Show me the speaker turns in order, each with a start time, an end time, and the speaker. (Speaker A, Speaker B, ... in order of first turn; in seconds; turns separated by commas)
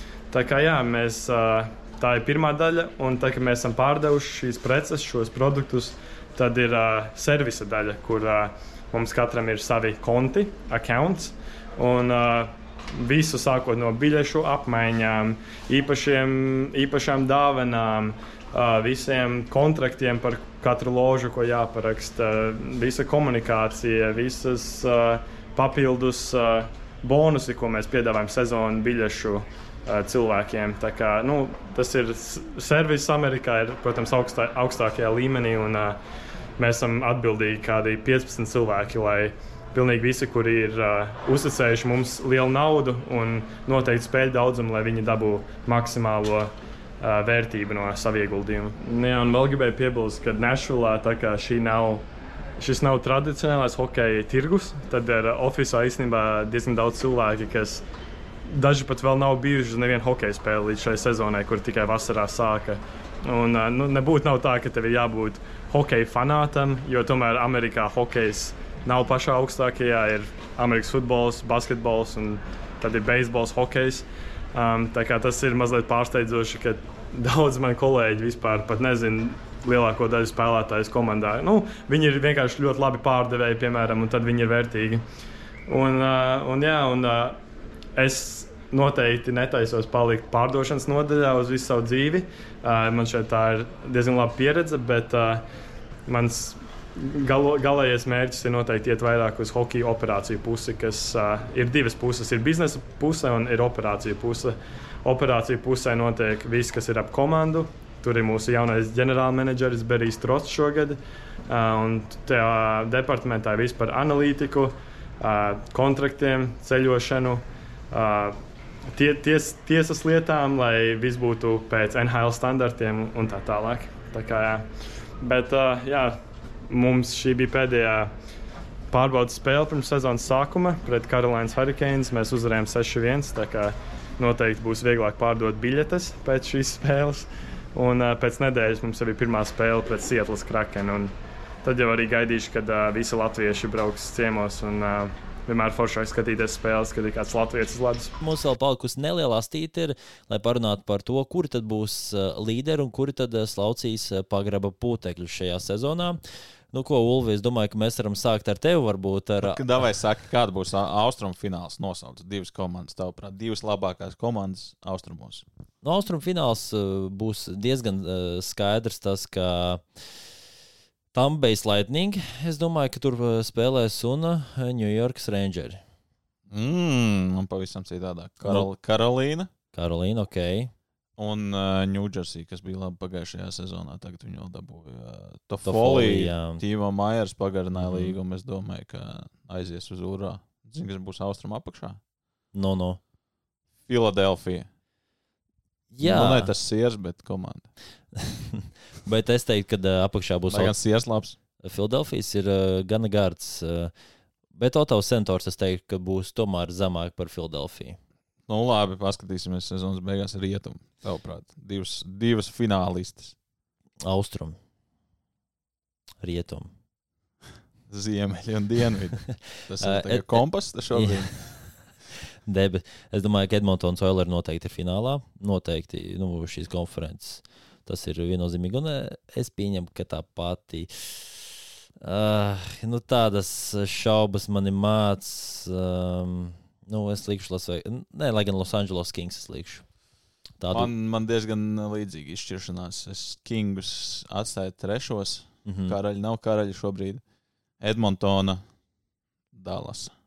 Speaker A: 0.3-36.0, Speaker A: 36.6-52.0, Speaker A: 52.6-57.8, Speaker A: 58.5-85.0, Speaker A: 85.7-87.4, Speaker A: 88.0-95.4, Speaker A: 96.1-118.4, Speaker A: 118.9-124.7, Speaker A: 125.2-128.1, Speaker A: 128.9-141.1, Speaker A: 141.6-148.2, Speaker B: 148.2-156.2, Speaker B: 156.7-159.6, Speaker C: 159.4-165.4, Speaker B: 165.8-170.3, Speaker B: 171.1-175.8, Speaker C: 176.5-179.5, Speaker B: 179.7-180.7, Speaker C: 181.2-192.0, Speaker B: 185.7-186.6, Speaker B: 187.8-188.2, Speaker B: 192.5-193.0, Speaker C: 193.9-194.7, Speaker B: 195.9-196.5, Speaker C: 196.0-197.7, Speaker B: 198.2-200.8, Speaker C: 200.5-201.4, Speaker B: 201.6-203.9, Speaker B: 204.6-208.0, Speaker C: 208.5-213.4, Speaker B: 214.1-214.6, Speaker B: 216.2-216.7, Speaker C: 217.9-221.4, Speaker B: 219.3-220.4, Speaker B: 220.9-221.7, Speaker B: 222.5-231.5, Speaker B: 232.0-239.9, Speaker B: 240.6-240.9, Speaker C: 240.7-247.2, Speaker B: 245.7-246.0, Speaker C: 247.8-248.6, Speaker C: 249.5-250.1